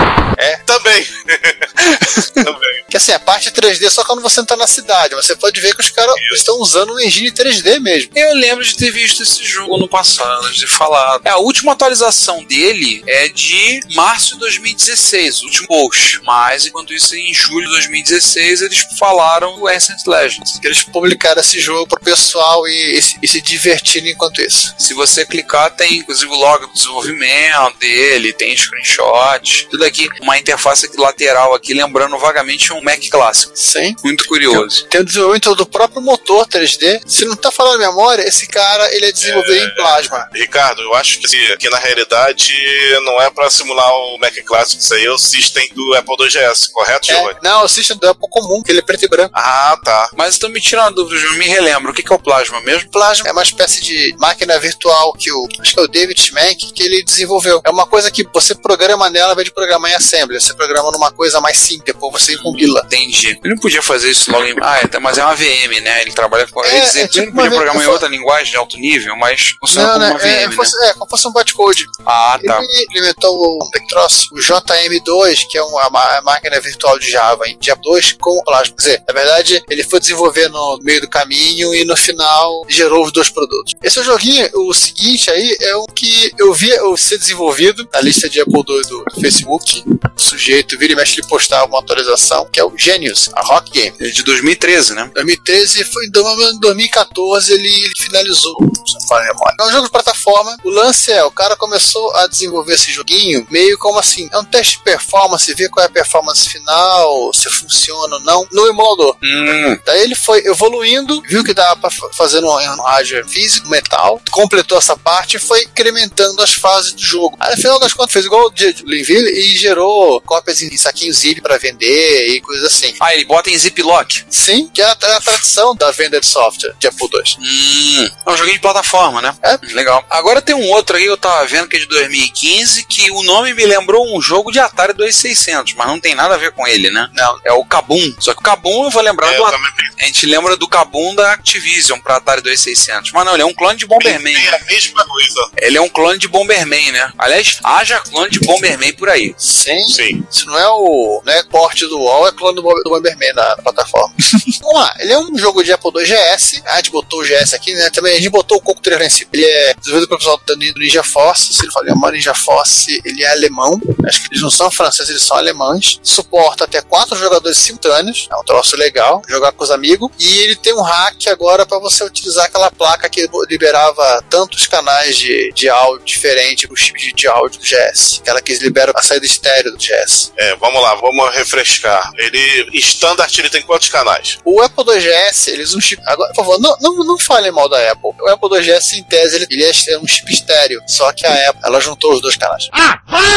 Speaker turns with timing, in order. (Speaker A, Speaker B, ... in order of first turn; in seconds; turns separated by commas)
Speaker A: 0.7-2.8, Speaker B: 2.9-8.1, Speaker A: 6.2-6.4, Speaker C: 8.1-20.5, Speaker B: 20.5-24.7, Speaker C: 24.8-34.8, Speaker B: 33.5-40.3, Speaker A: 39.2-47.4, Speaker B: 47.1-49.3, Speaker A: 49.3-50.1, Speaker C: 50.1-52.9, Speaker B: 52.9-62.9, Speaker C: 62.4-70.7, Speaker B: 66.6-68.0, Speaker B: 69.7-93.9, Speaker C: 72.0-72.7, Speaker C: 94.0-95.1, Speaker B: 95.1-109.2, Speaker C: 109.2-109.8, Speaker B: 109.8-123.0, Speaker C: 123.0-124.2, Speaker B: 124.3-127.4, Speaker C: 127.4-144.6, Speaker B: 137.1-137.4, Speaker A: 139.2-139.9, Speaker A: 144.0-145.5, Speaker C: 145.6-149.3, Speaker B: 149.4-180.3, Speaker A: 149.9-150.2, Speaker A: 180.4-184.4, Speaker B: 184.4-192.7